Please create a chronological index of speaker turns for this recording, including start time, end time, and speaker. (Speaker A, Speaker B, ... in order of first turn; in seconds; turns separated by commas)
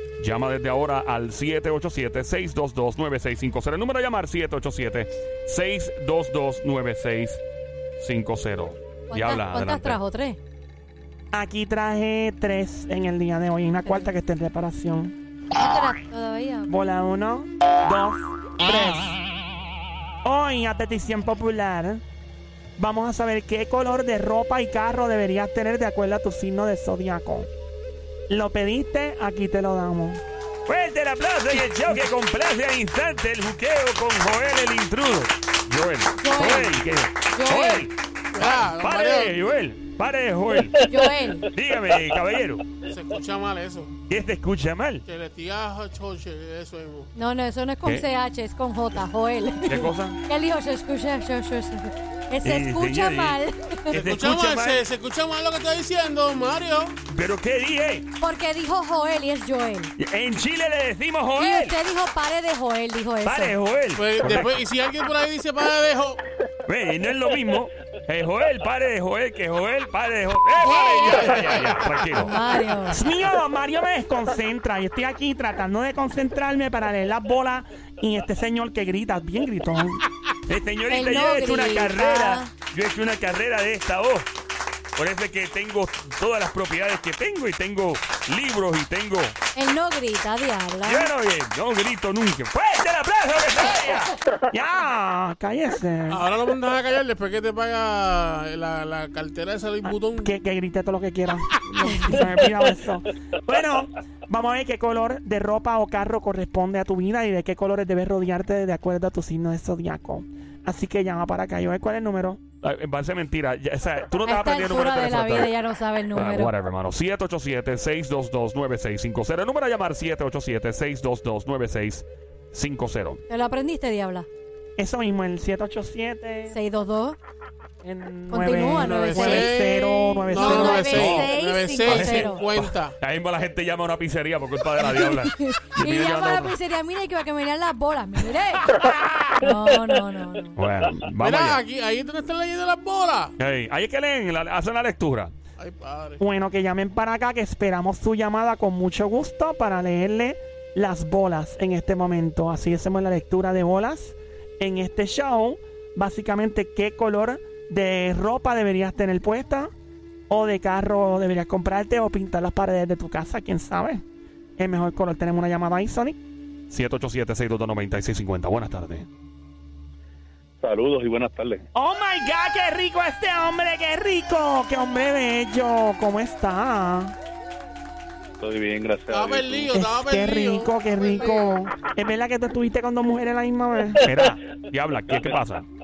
Speaker A: 0.2-7.4, Speaker A: 8.0-10.0, Speaker B: 9.1-10.4, Speaker C: 11.3-15.1, Speaker B: 13.8-14.1, Speaker B: 15.6-16.7, Speaker C: 16.7-19.2, Speaker C: 20.2-22.0, Speaker C: 22.8-27.5, Speaker C: 28.3-30.2, Speaker A: 30.7-40.8, Speaker B: 36.2-36.8, Speaker B: 37.3-37.9, Speaker D: 38.3-39.5, Speaker B: 40.9-41.5, Speaker A: 41.5-42.7, Speaker D: 42.8-43.9, Speaker A: 44.1-45.0, Speaker D: 45.1-47.1, Speaker B: 47.1-54.0, Speaker A: 49.7-50.2, Speaker A: 52.4-53.3, Speaker D: 53.0-53.3, Speaker D: 53.9-57.0, Speaker A: 53.9-54.8, Speaker A: 57.1-58.1, Speaker B: 58.2-59.9, Speaker A: 60.0-61.8, Speaker B: 61.4-63.6, Speaker A: 63.2-64.5, Speaker D: 63.9-66.2, Speaker A: 66.7-72.3, Speaker B: 70.6-71.4, Speaker B: 72.2-73.0, Speaker C: 72.9-80.0, Speaker A: 80.5-84.3, Speaker B: 80.9-82.5, Speaker A: 85.0-89.4, Speaker B: 89.5-91.1, Speaker A: 90.8-94.2, Speaker C: 94.5-96.2, Speaker D: 96.1-100.3, Speaker C: 100.2-112.4, Speaker A: 112.6-115.5, Speaker B: 114.2-116.5, Speaker A: 116.1-123.2, Speaker B: 123.3-124.3, Speaker C: 124.8-126.6, Speaker B: 126.5-127.2, Speaker C: 127.8-131.0, Speaker B: 128.3-129.5, Speaker D: 128.9-132.9, Speaker B: 130.3-132.4, Speaker A: 130.9-131.3, Speaker A: 131.9-136.6, Speaker B: 134.9-138.8, Speaker A: 138.7-139.4, Speaker B: 139.4-140.6, Speaker A: 140.6-141.6, Speaker D: 141.2-143.3, Speaker A: 143.4-145.3, Speaker D: 145.6-146.2, Speaker C: 146.2-159.7, Speaker C: 160.3-164.0, Speaker C: 164.6-166.2, Speaker A: 166.7-169.1, Speaker E: 170.6-171.6, Speaker C: 171.7-177.1, Speaker E: 178.4-179.8, Speaker D: 179.1-181.6, Speaker C: 179.7-184.1, Speaker A: 184.0-185.7, Speaker E: 185.1-185.3